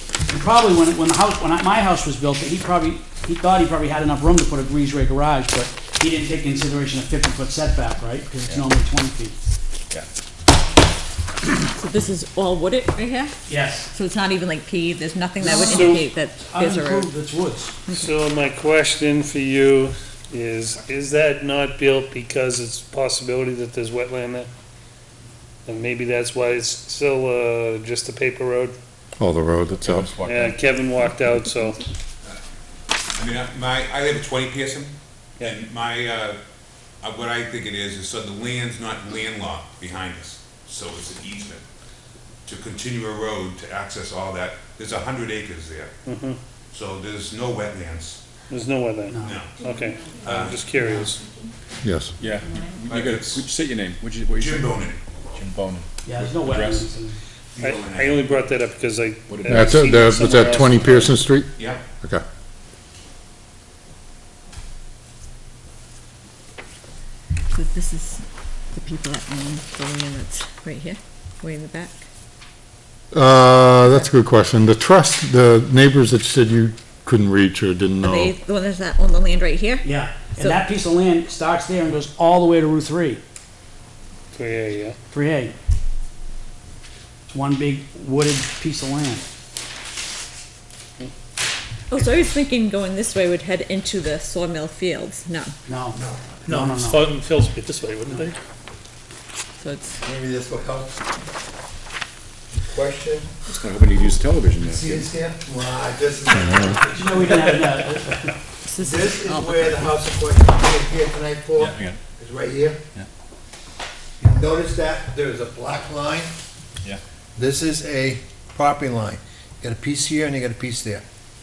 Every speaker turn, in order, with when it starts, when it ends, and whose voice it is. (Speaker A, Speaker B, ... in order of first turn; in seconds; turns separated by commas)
Speaker A: 0.3-9.3, Speaker B: 11.7-13.3, Speaker A: 13.5-13.9, Speaker B: 13.9-17.1, Speaker A: 15.4-17.8, Speaker C: 15.4-16.0, Speaker C: 17.9-24.5, Speaker C: 25.6-28.8, Speaker D: 29.2-30.1, Speaker E: 29.7-30.6, Speaker C: 30.2-31.8, Speaker F: 33.1-36.4, Speaker F: 37.0-41.6, Speaker F: 42.4-45.9, Speaker C: 46.0-46.4, Speaker F: 46.7-48.2, Speaker C: 48.5-51.2, Speaker A: 49.1-49.4, Speaker F: 49.2-49.6, Speaker B: 49.8-50.2, Speaker F: 50.2-50.6, Speaker A: 50.8-51.0, Speaker D: 51.8-52.1, Speaker E: 52.2-56.9, Speaker F: 52.9-53.5, Speaker F: 54.3-55.0, Speaker A: 56.0-57.2, Speaker F: 57.5-58.4, Speaker C: 57.6-61.2, Speaker E: 59.3-61.1, Speaker D: 59.5-62.2, Speaker F: 61.5-61.8, Speaker B: 67.5-72.0, Speaker D: 73.1-78.3, Speaker B: 78.0-80.6, Speaker A: 79.8-83.2, Speaker C: 84.3-85.0, Speaker A: 85.1-85.5, Speaker A: 87.3-89.2, Speaker B: 91.9-95.5, Speaker A: 95.7-97.1, Speaker G: 95.9-96.2, Speaker C: 96.5-98.3, Speaker B: 99.6-100.0, Speaker G: 100.0-101.0, Speaker G: 102.5-103.3, Speaker E: 103.5-105.1, Speaker G: 104.6-107.5, Speaker A: 106.9-108.3, Speaker B: 108.6-109.8, Speaker G: 108.8-112.8, Speaker E: 111.5-112.0, Speaker G: 114.2-116.3, Speaker G: 117.3-121.0